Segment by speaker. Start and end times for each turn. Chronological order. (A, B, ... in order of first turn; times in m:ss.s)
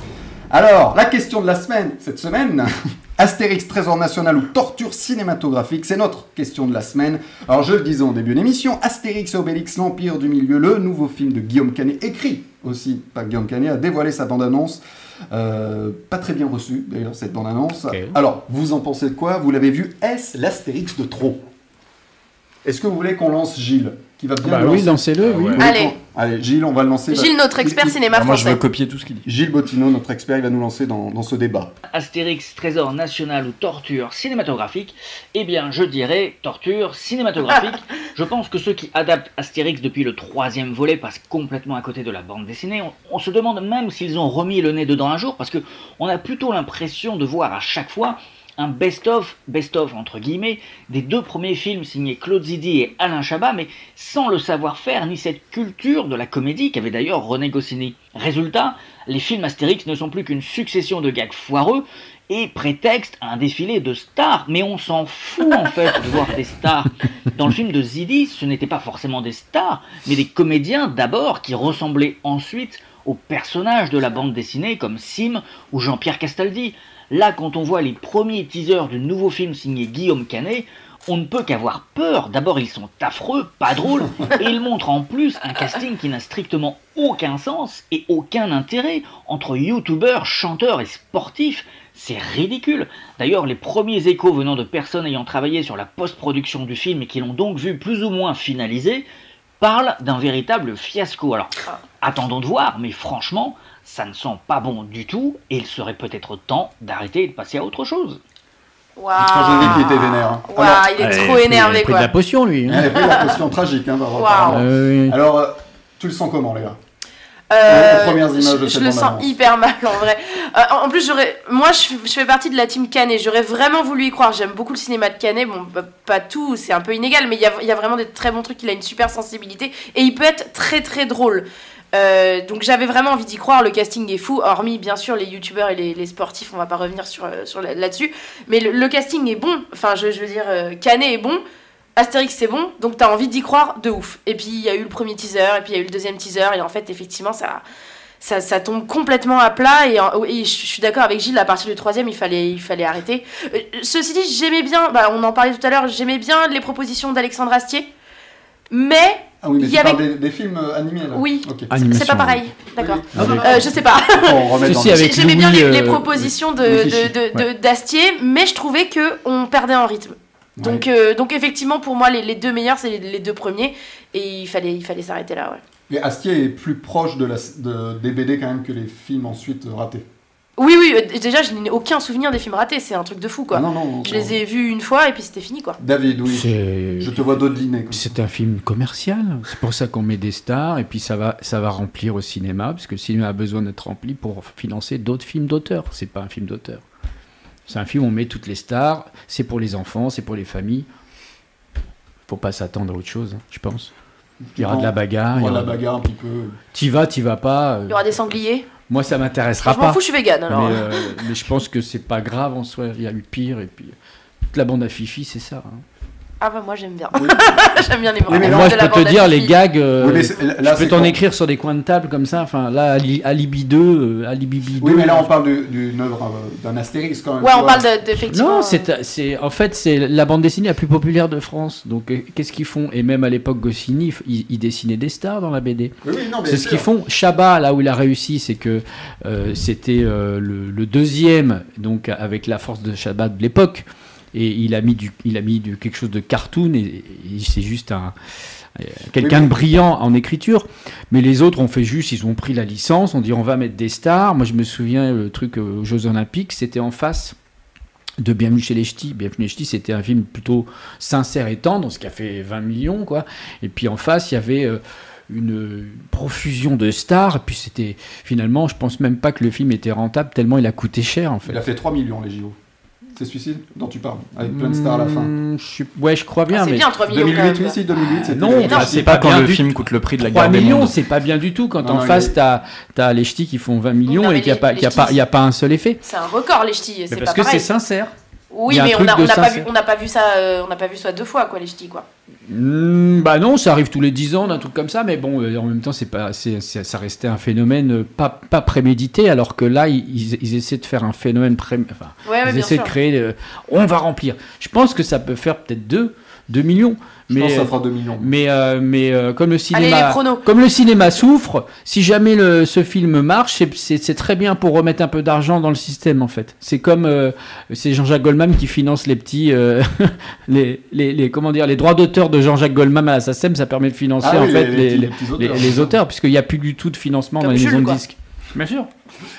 0:00.5-0:14.8 A
0:15.3-0:21.5 A
0:17.9-0:18.1 B
0:22.6-0:25.0 A
0:24.4-0:25.6 B
0:25.2-0:25.6 C
0:25.6-0:28.0 A
0:25.6-0:26.0 D
0:27.1-0:28.6 D
0:28.1-0:29.3 C
0:29.3-0:31.7 A
0:31.9-1:39.1 E
1:39.6-1:48.2 E
1:49.0-1:52.1 D
1:49.2-1:50.9 A
1:51.0-1:52.9 B
1:52.7-1:56.8 A
1:53.0-1:53.4 D
1:54.2-1:54.7 D
1:54.5-1:55.2 B
1:57.5-2:21.4 D
1:57.6-1:59.3 A
2:22.0-2:27.6 D
2:28.2-2:37.9 D
2:38.7-2:40.0 D
2:39.4-2:41.9 A
2:41.1-2:55.6 D
2:41.7-2:42.4 B
2:42.8-2:45.2 A
2:43.1-2:43.5 B
2:44.6-2:46.3 B
2:46.6-2:47.2 A
2:50.6-2:50.9 A
2:55.9-3:00.0 A
3:00.6-3:05.8 D
3:03.5-3:04.4 A
3:05.8-3:08.1 A
3:06.3-3:16.8 B
3:17.7-3:20.9 B
3:22.3-3:23.9 B
3:24.4-3:26.6 A
3:24.6-3:25.8 B
3:26.7-3:28.0 B
3:27.9-3:28.7 D
3:28.9-3:34.0 B
3:29.6-3:31.2 D
3:34.5-3:35.8 B
3:36.4-3:39.6 D
3:38.3-3:38.8 A
3:38.3-3:45.3 B
3:40.0-3:41.2 A
3:44.8-3:47.9 A
3:47.4-3:48.9 D
3:48.3-4:08.1 B
3:56.0-3:56.9 A
4:08.7-4:17.4 B
4:09.2-4:09.5 A
4:18.2-4:31.6 B
4:31.4-4:32.6 A
4:33.2-4:35.3 A
4:34.4-4:36.9 B
4:36.5-4:37.8 D
4:37.1-4:39.1 A
4:38.0-4:46.0 B
4:38.6-4:38.9 D
4:38.7-4:41.0 C
4:41.8-4:42.4 A
4:44.1-4:45.2 D
4:46.0-4:47.7 D
4:47.1-4:48.1 B
4:48.5-4:52.0 D
4:48.7-4:49.7 B
4:52.5-5:28.9 B
5:02.2-5:02.9 D
5:07.3-5:08.3 A
5:09.7-5:10.4 D
5:24.2-5:26.0 A
5:27.4-5:28.0 D